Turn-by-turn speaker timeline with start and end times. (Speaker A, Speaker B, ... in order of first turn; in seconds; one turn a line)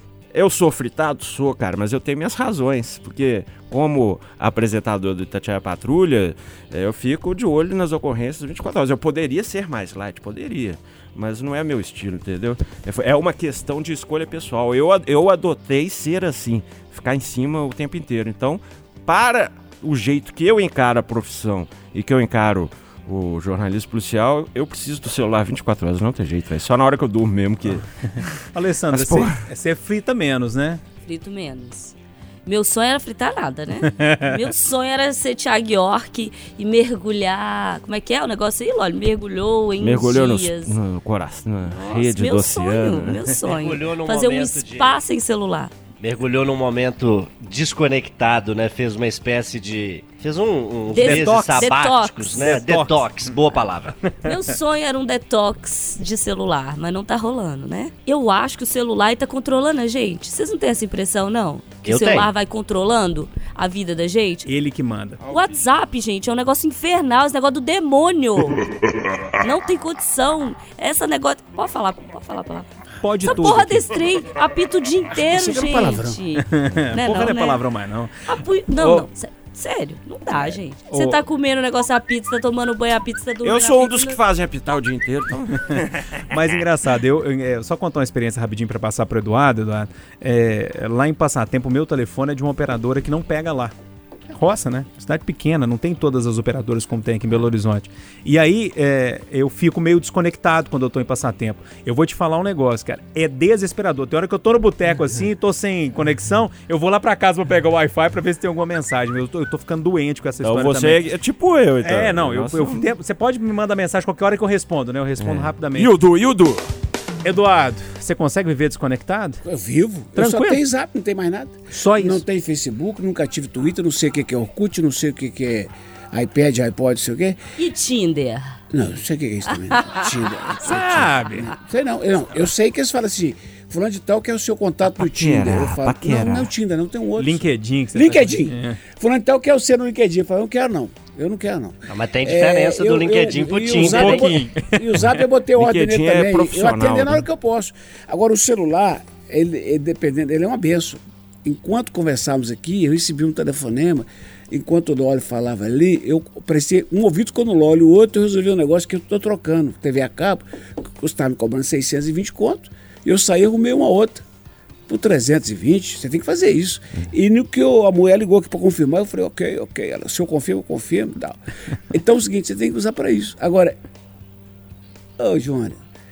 Speaker A: 0.3-28.4
Speaker B: 28.5-30.8
Speaker A: 28.9-29.4
Speaker C: 31.0-31.9
Speaker C: 32.5-40.7
Speaker B: 33.8-34.3
Speaker A: 39.8-43.2
Speaker C: 41.7-45.7
Speaker D: 43.4-45.0
Speaker D: 46.0-54.1
Speaker C: 50.9-52.4
Speaker B: 50.9-53.1
Speaker C: 54.2-64.5
Speaker D: 61.8-62.3
Speaker B: 64.5-65.2
Speaker C: 65.3-68.7
Speaker C: 69.4-77.6
Speaker B: 73.0-73.8
Speaker E: 75.2-76.2
Speaker B: 76.4-78.2
Speaker C: 78.3-84.2
Speaker B: 78.8-79.1
Speaker B: 80.9-81.2
Speaker A: 83.4-86.6
Speaker B: 86.3-93.7
Speaker B: 94.3-111.0
Speaker A: 110.4-112.9
Speaker B: 111.8-115.9
Speaker A: 115.2-116.7
Speaker B: 117.2-119.4
Speaker E: 119.4-127.4
Speaker B: 120.1-120.6
Speaker B: 121.7-122.2
Speaker C: 127.6-128.4
Speaker E: 128.7-164.2
Speaker C: 129.7-130.1
Speaker B: 130.6-131.5
Speaker A: 135.0-136.5
Speaker B: 137.2-138.8
Speaker D: 141.9-144.3
Speaker B: 143.8-145.2
Speaker A: 145.6-147.2
Speaker E: 164.9-171.4
Speaker E: 171.9-173.8
Speaker E: 175.2-175.8